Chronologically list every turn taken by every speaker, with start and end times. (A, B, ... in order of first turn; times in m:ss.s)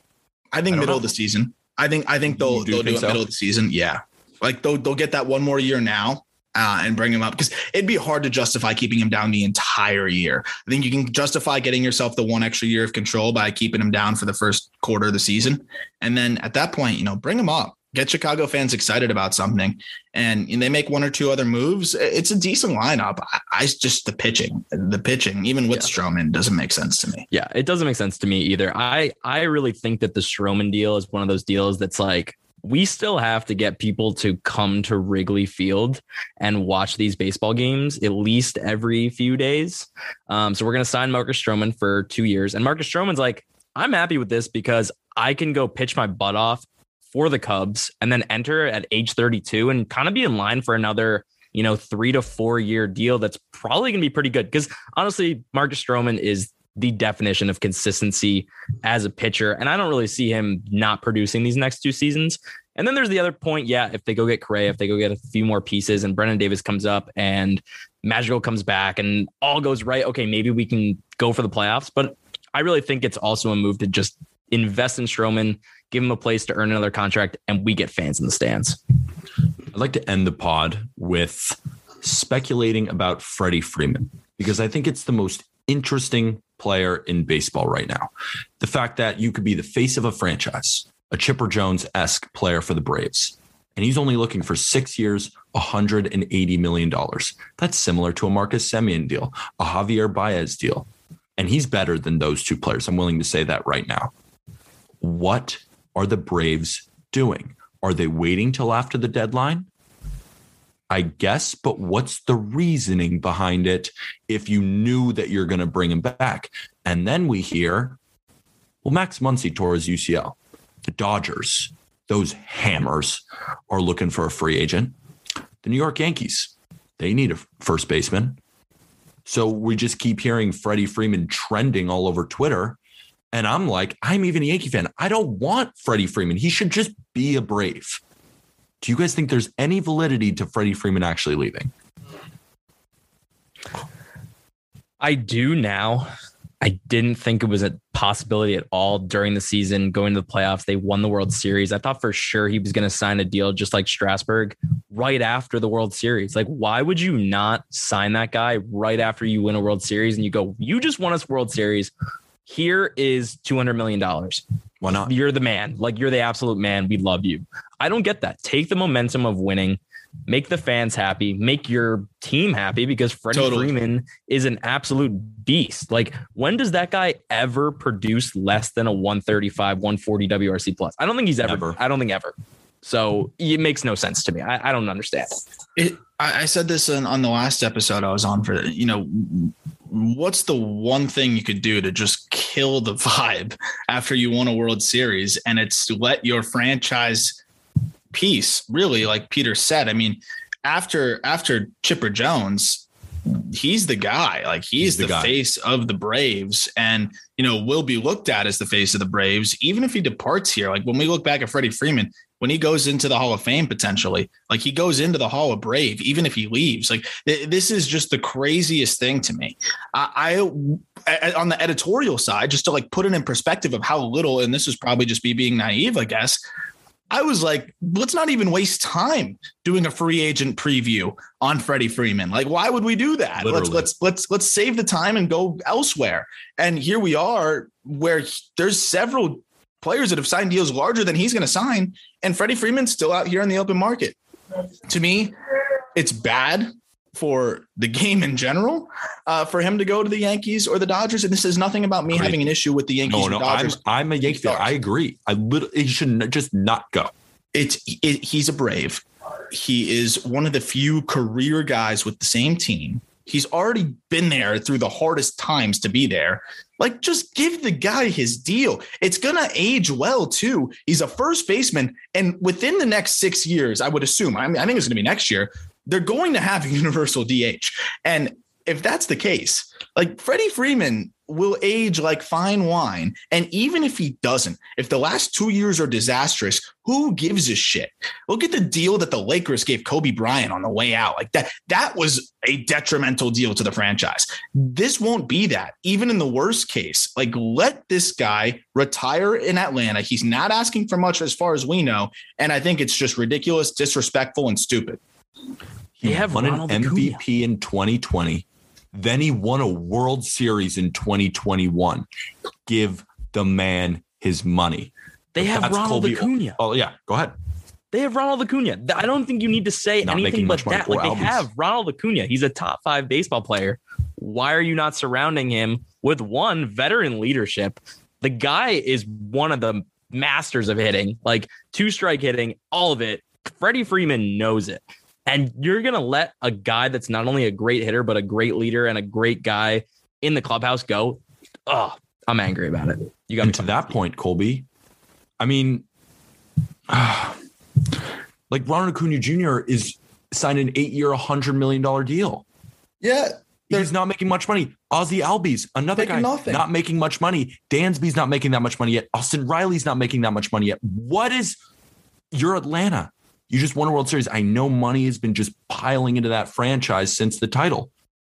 0:00.5-0:27.2 A
0:00.7-0:01.0 B
0:02.3-0:03.2 B
0:27.3-1:18.8 C
1:19.7-1:44.1 B
1:45.0-1:49.7 B
1:50.9-1:58.0 B
1:58.8-2:00.4 B
2:00.9-2:04.9 B
2:05.6-2:08.4 B
2:09.2-2:12.8 B
2:13.3-2:18.0 B
2:18.8-2:21.7 B
2:25.0-2:26.1 C
2:26.6-2:41.9 C
2:42.4-2:44.4 C
2:44.8-2:45.1 B
2:45.0-3:05.4 C
2:53.3-2:53.7 A
3:01.4-3:01.8 B
3:05.8-3:17.4 A
3:18.1-3:46.4 A
3:24.8-3:25.4 B
3:47.1-4:04.2 A
3:53.4-3:53.9 B
4:04.9-4:05.3 A
4:05.9-4:14.7 A
4:12.1-4:12.5 B
4:13.0-4:17.1 B
4:17.5-5:05.0 A
5:06.0-5:12.1 B
5:06.0-5:07.2 C
5:12.6-5:17.3 B
5:15.3-5:16.6 C
5:17.9-5:43.8 C
5:20.0-5:21.5 B
5:43.4-5:44.6 B
5:45.4-5:45.8 B
5:46.9-5:47.4 B
5:48.5-5:52.4 B
5:53.0-5:53.9 A
5:53.7-6:01.6 B
5:56.0-5:56.6 A
6:02.3-6:07.9 B